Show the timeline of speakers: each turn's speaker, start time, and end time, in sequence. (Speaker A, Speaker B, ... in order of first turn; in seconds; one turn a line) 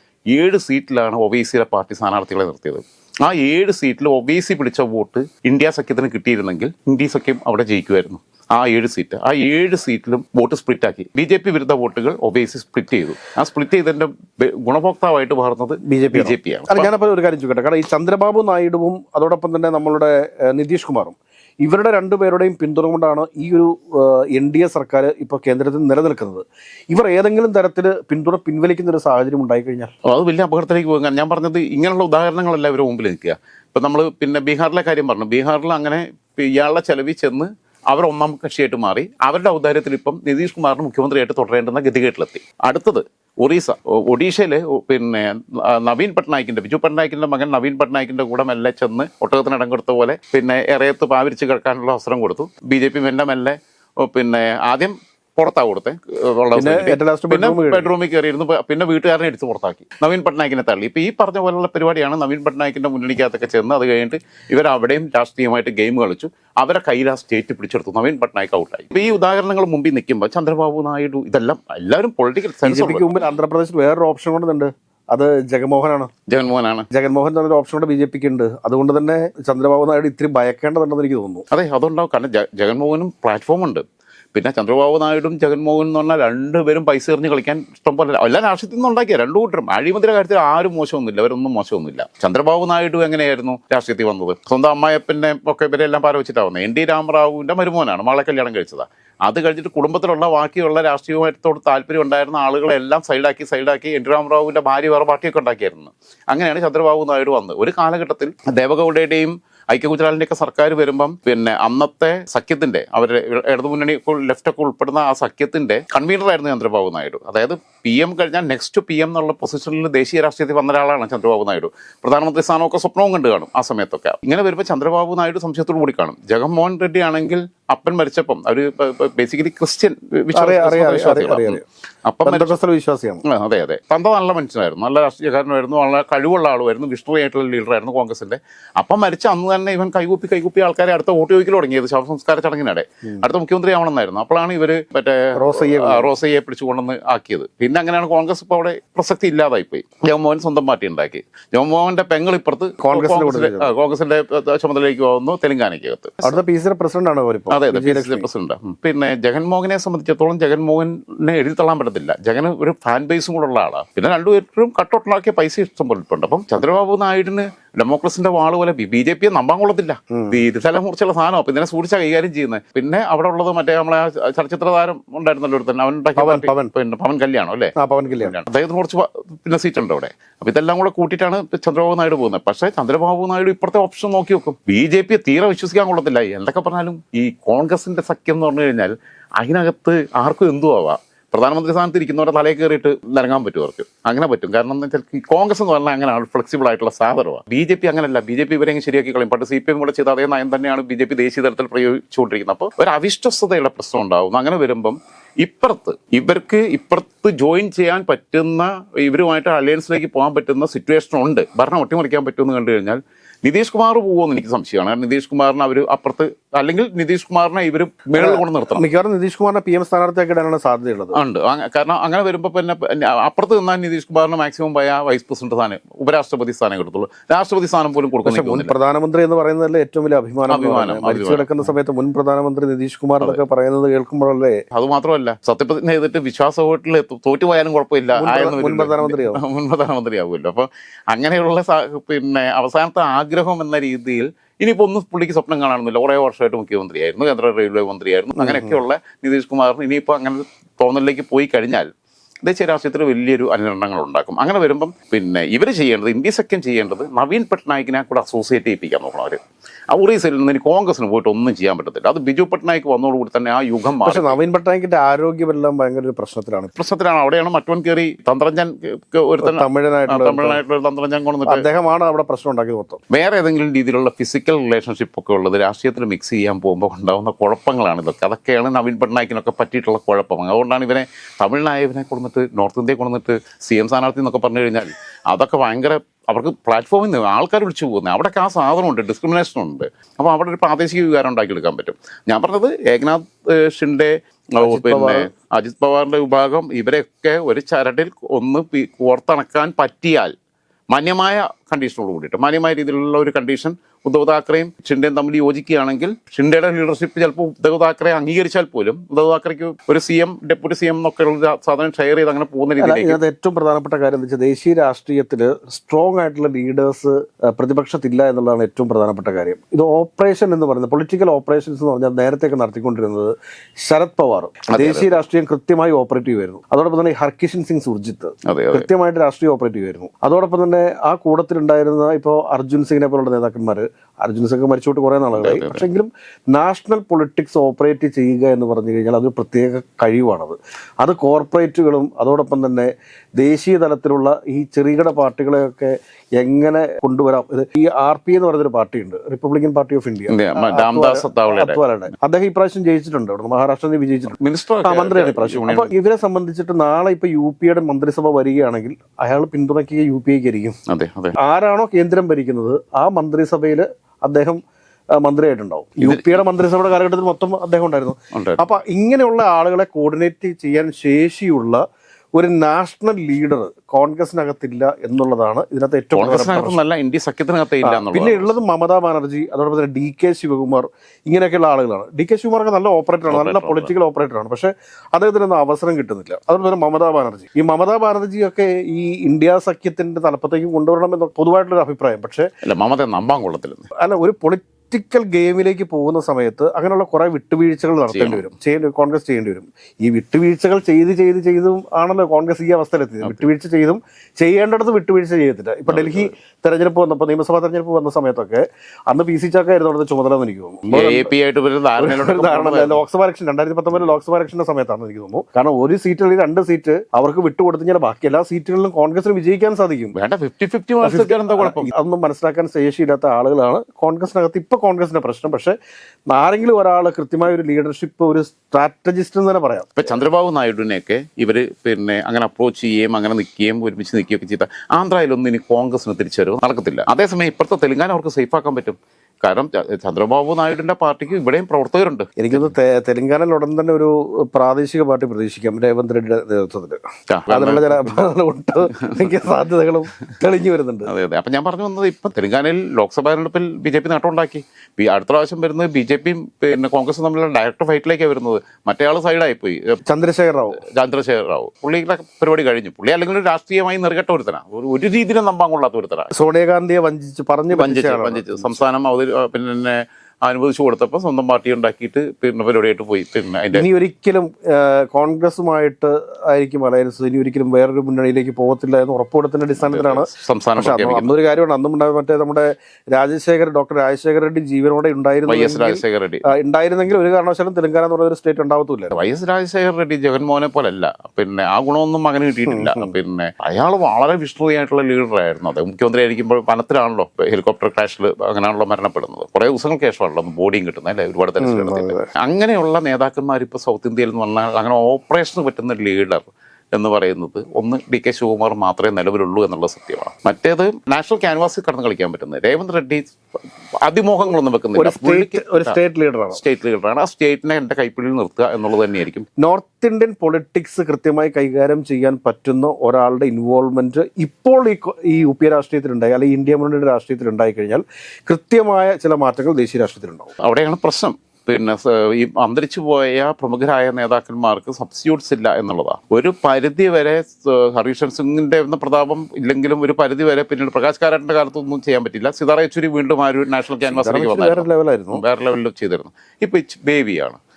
Speaker A: 0.3-16.9
Speaker B: 15.8-29.9
Speaker A: 30.0-73.2
Speaker B: 56.5-57.9
Speaker B: 72.6-76.1
Speaker A: 76.3-76.9
Speaker B: 76.9-81.4
Speaker A: 81.5-132.6
Speaker B: 130.3-131.6
Speaker B: 132.2-133.2
Speaker A: 133.2-156.4
Speaker B: 145.3-146.1
Speaker B: 152.8-153.7
Speaker B: 156.2-158.3
Speaker A: 157.5-218.8
Speaker B: 170.1-170.4
Speaker B: 176.2-176.7
Speaker B: 177.8-178.3
Speaker B: 218.2-221.2
Speaker A: 221.1-228.7
Speaker B: 228.2-234.6
Speaker A: 230.5-231.5
Speaker A: 234.7-251.9
Speaker B: 238.2-239.4
Speaker B: 248.4-248.8
Speaker A: 252.4-259.4
Speaker A: 259.9-264.4
Speaker B: 264.0-266.7
Speaker A: 266.7-271.6
Speaker B: 269.4-270.6
Speaker B: 271.4-273.0
Speaker A: 273.1-300.3
Speaker B: 294.6-295.3
Speaker A: 300.9-313.2
Speaker B: 312.8-360.8
Speaker A: 324.7-325.2
Speaker A: 328.4-328.9
Speaker A: 335.4-335.9
Speaker A: 350.3-351.8
Speaker A: 354.3-355.9
Speaker A: 360.9-361.4
Speaker B: 361.4-364.6
Speaker B: 365.2-371.8
Speaker A: 366.0-366.3
Speaker A: 368.3-368.6
Speaker B: 372.4-376.8
Speaker A: 376.1-378.6
Speaker B: 377.8-392.5
Speaker A: 383.3-383.9
Speaker A: 392.6-393.9
Speaker B: 394.0-411.3
Speaker A: 398.1-398.4
Speaker A: 403.2-403.5
Speaker A: 405.9-406.3
Speaker A: 410.9-413.0
Speaker B: 412.0-420.1
Speaker A: 420.1-421.9
Speaker B: 421.0-425.8
Speaker B: 426.3-429.9
Speaker A: 429.9-442.7
Speaker B: 442.4-451.1
Speaker A: 447.3-448.2
Speaker A: 449.0-449.3
Speaker A: 451.1-460.0
Speaker B: 460.1-460.8
Speaker A: 460.8-466.3
Speaker B: 466.3-468.8
Speaker A: 467.7-473.9
Speaker B: 473.7-489.1
Speaker A: 479.8-481.3
Speaker A: 485.4-486.5
Speaker A: 489.1-513.3
Speaker B: 492.7-493.1
Speaker B: 501.6-502.3
Speaker A: 514.0-516.0
Speaker B: 514.9-516.6
Speaker A: 516.5-519.5
Speaker B: 519.6-530.5
Speaker A: 530.6-547.6
Speaker B: 544.1-545.4